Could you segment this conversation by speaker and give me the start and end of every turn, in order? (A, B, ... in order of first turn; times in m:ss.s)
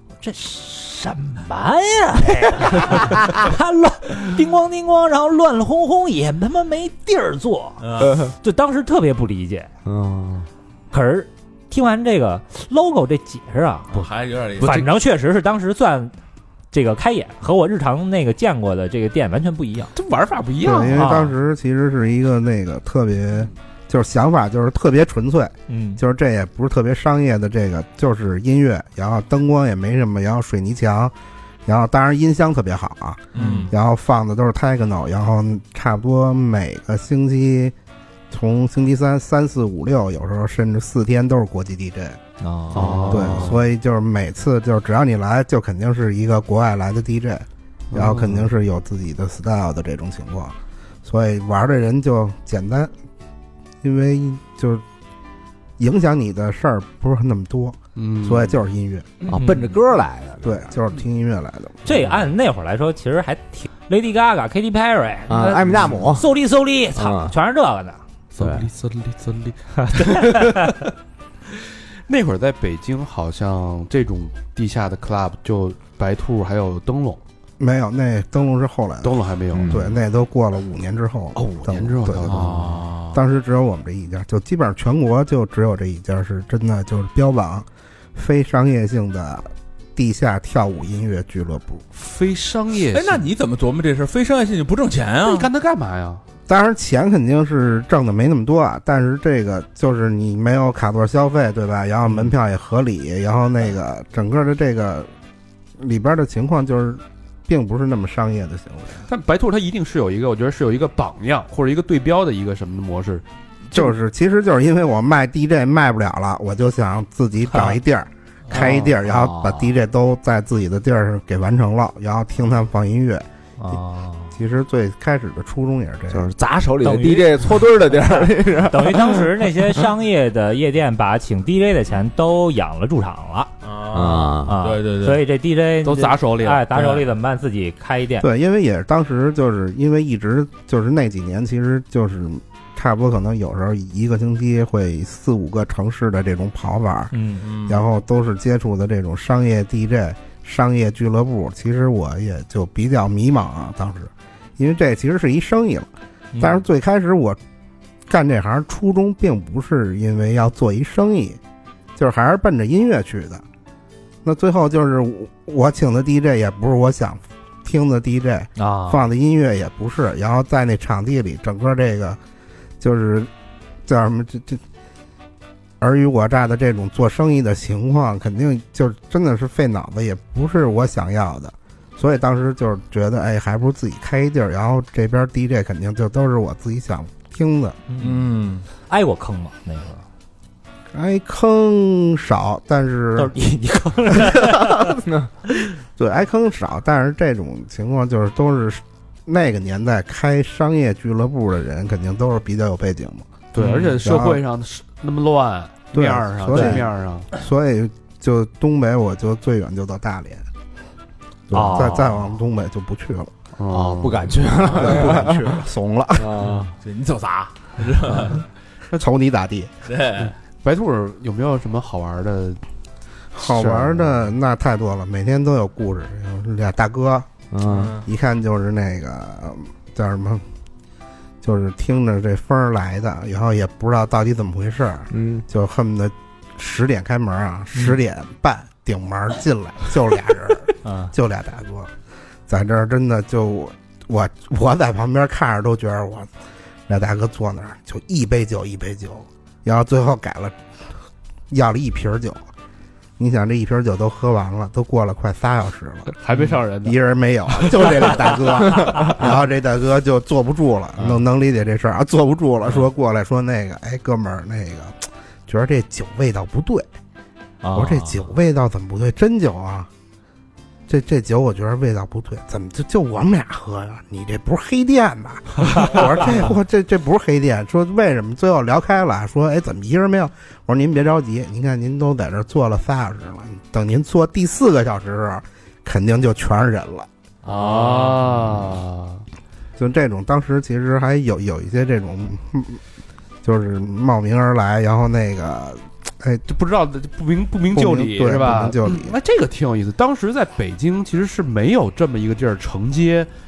0:00.2-0:09.7 A
0:02.8-0:03.1 B
0:07.8-0:08.2 C
0:09.8-0:10.5 B
0:10.9-0:14.1 A
0:13.9-0:14.9 C
0:14.6-0:16.1 A
0:16.7-0:19.9 A
0:20.0-0:21.0 D
0:20.6-0:31.2 E
0:20.9-0:21.3 A
0:25.7-0:26.0 A
0:31.7-0:37.8 E
0:33.3-0:33.7 C
0:38.3-0:42.2 E
0:42.4-0:43.3 A
0:42.7-0:43.6 D
0:42.8-0:43.2 B
0:43.1-0:52.9 E
0:47.9-0:48.5 D
0:53.8-0:54.8 E
0:55.8-0:59.1 E
0:58.0-0:58.6 D
0:59.3-1:00.7 B
0:59.4-0:59.7 C
1:00.4-1:01.8 E
1:01.8-1:08.0 A
1:05.3-1:06.3 B
1:05.7-1:06.0 D
1:07.0-1:07.3 B
1:08.3-1:10.8 D
1:08.4-1:08.7 B
1:09.9-1:10.6 A
1:12.1-1:17.2 D
1:17.6-1:31.8 E
1:19.0-1:19.9 D
1:19.5-1:19.9 B
1:21.4-1:22.8 D
1:22.3-1:23.2 C
1:31.9-1:33.3 D
1:32.9-1:35.5 C
1:35.2-1:36.2 D
1:36.5-1:45.1 E
1:45.8-1:49.0 E
1:49.1-1:53.9 D
1:53.7-2:03.3 E
1:58.5-1:59.7 B
2:03.6-2:04.3 A
2:04.3-2:06.3 E
2:06.1-2:09.5 B
2:06.8-2:07.7 A
2:08.7-2:13.5 A
2:13.6-2:15.2 C
2:13.9-2:14.6 B
2:14.5-2:18.3 A
2:15.8-2:17.0 D
2:18.2-2:27.1 E
2:27.1-2:27.4 A
2:27.4-2:27.8 C
2:27.6-2:37.4 E
2:36.3-2:36.6 A
2:38.1-2:41.4 E
2:42.0-2:43.4 E
2:44.2-2:52.2 E
2:48.6-2:49.0 A
2:52.8-2:53.3 E
2:53.8-2:54.6 E
2:55.8-3:07.8 E
3:07.9-3:08.3 A
3:08.0-3:08.6 C
3:08.9-3:10.0 A
3:10.9-3:13.3 E
3:13.2-3:15.0 A
3:14.3-3:15.0 E
3:16.0-3:23.4 E
3:23.5-3:27.3 D
3:23.6-3:23.8 C
3:24.0-3:24.4 E
3:25.9-3:30.5 E
3:26.5-3:26.8 A
3:31.5-3:33.3 E
3:31.5-3:32.1 A
3:33.6-3:34.4 D
3:33.7-3:35.6 B
3:34.7-3:36.4 E
3:36.2-3:36.7 B
3:36.8-3:38.4 C
3:38.9-3:39.7 E
3:39.9-3:40.3 C
3:40.6-3:42.6 D
3:43.4-3:47.3 E
3:43.4-3:44.2 D
3:47.5-3:48.0 B
3:47.7-3:48.0 C
3:48.0-3:50.4 E
3:51.4-4:01.9 E
3:55.1-3:55.4 B
4:00.8-4:01.1 A
4:02.5-4:06.3 E
4:06.9-4:10.6 E
4:11.5-4:12.5 E
4:13.2-4:16.2 E
4:16.2-4:17.0 D
4:16.8-4:26.9 E
4:17.6-4:18.5 D
4:27.6-4:28.0 A
4:27.7-4:29.9 E
4:30.9-4:47.1 E
4:47.4-4:49.2 D
4:47.5-4:48.6 C
4:49.8-4:52.8 E
4:53.4-4:56.4 E
4:56.5-5:03.3 D
4:57.7-4:59.2 E